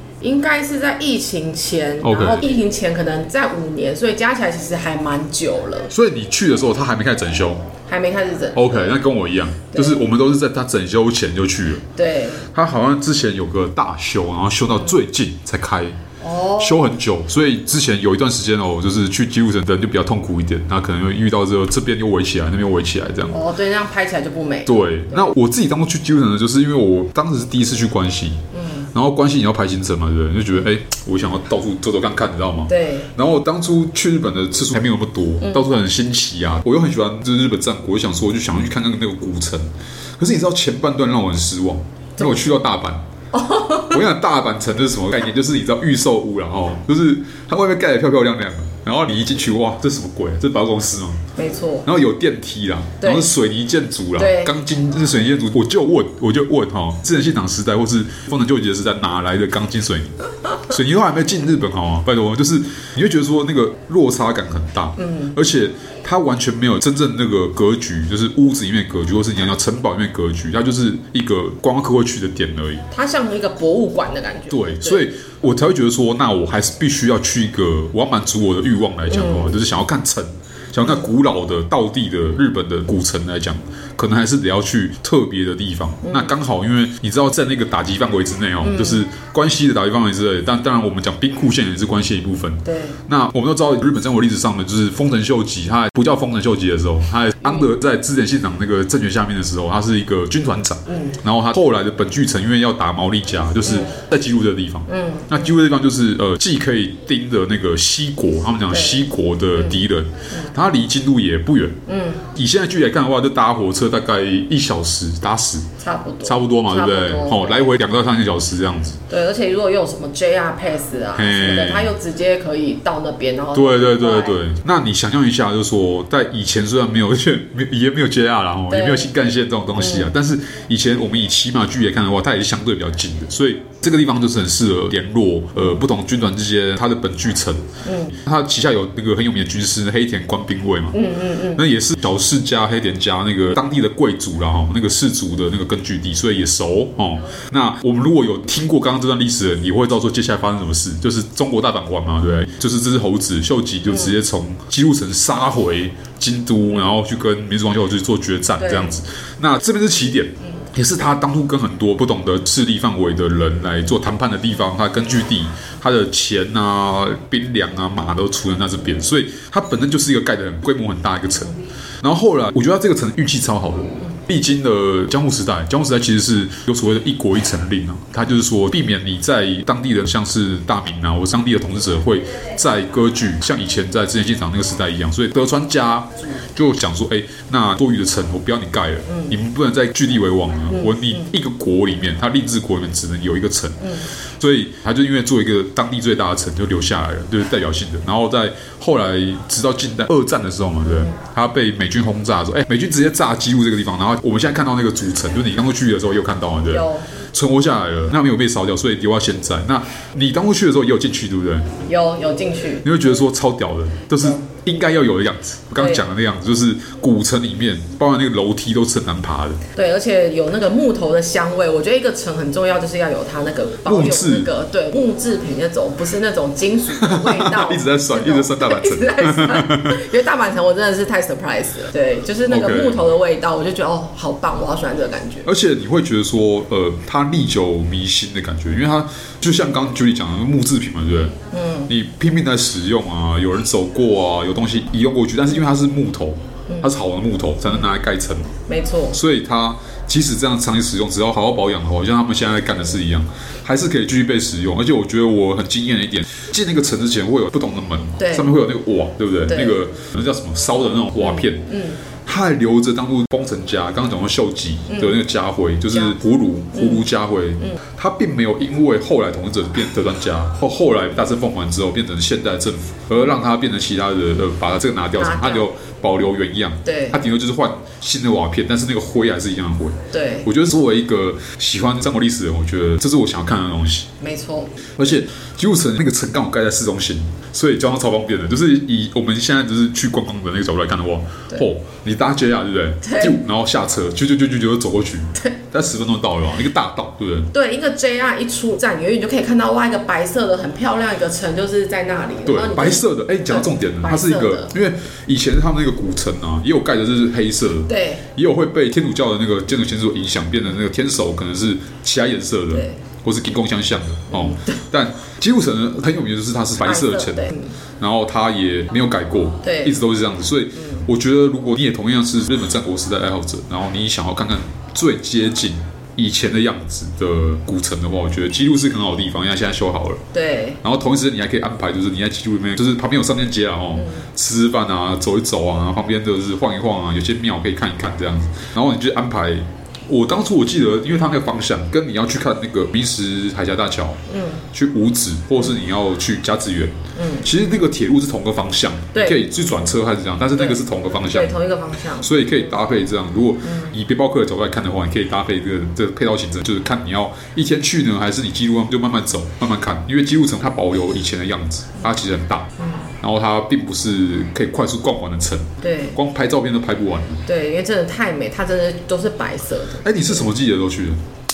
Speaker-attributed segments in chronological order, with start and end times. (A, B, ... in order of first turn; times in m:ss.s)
0:00.2-0:05.9 A
0:02.0-0:02.5 B
0:05.9-0:07.7 B
0:07.8-0:09.0 A
0:08.5-0:11.8 B
0:09.7-0:10.1 A
0:12.0-0:12.5 A
0:12.5-0:16.0 B
0:16.2-0:16.9 A
0:16.6-0:23.4 B
0:23.3-0:25.2 A
0:24.7-0:43.0 B
0:28.5-0:28.9 A
0:32.7-0:33.1 A
0:42.2-0:42.5 A
0:43.3-0:44.0 A
0:43.9-0:51.2 B
0:51.4-0:51.9 A
0:51.8-1:12.8 B
0:53.0-0:53.3 A
0:54.2-0:54.5 A
1:05.0-1:05.4 A
1:12.9-1:15.1 A
1:14.5-1:51.8 B
1:19.1-1:19.5 A
1:26.0-1:26.4 A
1:28.6-1:29.1 A
1:32.7-1:33.0 A
1:40.9-1:41.2 A
1:44.9-1:45.5 A
1:48.7-1:50.5 A
1:51.9-1:52.3 A
1:52.3-1:55.7 B
1:55.8-1:57.7 A
1:56.2-1:59.0 B
1:59.1-2:04.4 A
2:01.2-2:01.9 B
2:03.5-2:17.7 B
2:08.7-2:09.1 A
2:09.8-2:10.1 A
2:17.8-2:18.2 A
2:18.2-2:21.0 B
2:20.9-2:21.6 A
2:21.5-3:31.7 B
2:33.9-2:34.2 A
2:38.6-2:39.0 A
3:09.1-3:09.4 A
3:10.7-3:11.3 A
3:13.8-3:14.1 A
3:20.9-3:21.1 A
3:26.7-3:27.1 A
3:31.8-3:32.9 A
3:32.8-3:39.6 B
3:35.8-3:36.1 A
3:39.7-3:55.5 A
3:43.8-3:44.5 B
3:47.0-3:50.0 B
3:52.5-3:53.0 B
3:55.4-4:01.4 B
4:01.5-4:01.9 A
4:01.9-4:08.6 B
4:07.7-4:08.0 A
4:08.7-4:09.2 A
4:09.1-4:21.7 B
4:18.2-4:18.5 A
4:19.5-4:19.8 A
4:21.2-4:22.0 A
4:22.2-4:44.1 B
4:24.9-4:25.2 A
4:25.9-4:26.2 A
4:26.7-4:27.1 A
4:35.2-4:35.7 A
4:36.8-4:37.2 A
4:40.1-4:40.5 A
4:44.2-4:44.8 A
4:45.0-4:57.5 B
4:53.0-4:53.4 A
4:57.5-5:04.7 A
5:02.5-5:30.2 B
5:07.9-5:08.2 A
5:14.3-5:14.8 A
5:16.8-5:17.8 A
5:19.6-5:20.0 A
5:20.8-5:21.1 A
5:30.3-5:30.8 A
5:30.8-5:51.6 B
5:34.0-5:34.3 A
5:44.3-5:44.7 A
5:47.2-5:47.5 A
5:49.1-5:49.4 A
5:50.6-5:52.8 A
5:52.2-6:02.7 B
5:53.6-5:53.9 A
6:02.8-6:03.1 A
6:03.2-6:07.4 B
6:05.8-6:06.2 A
6:07.5-6:10.5 A
6:10.0-6:11.2 B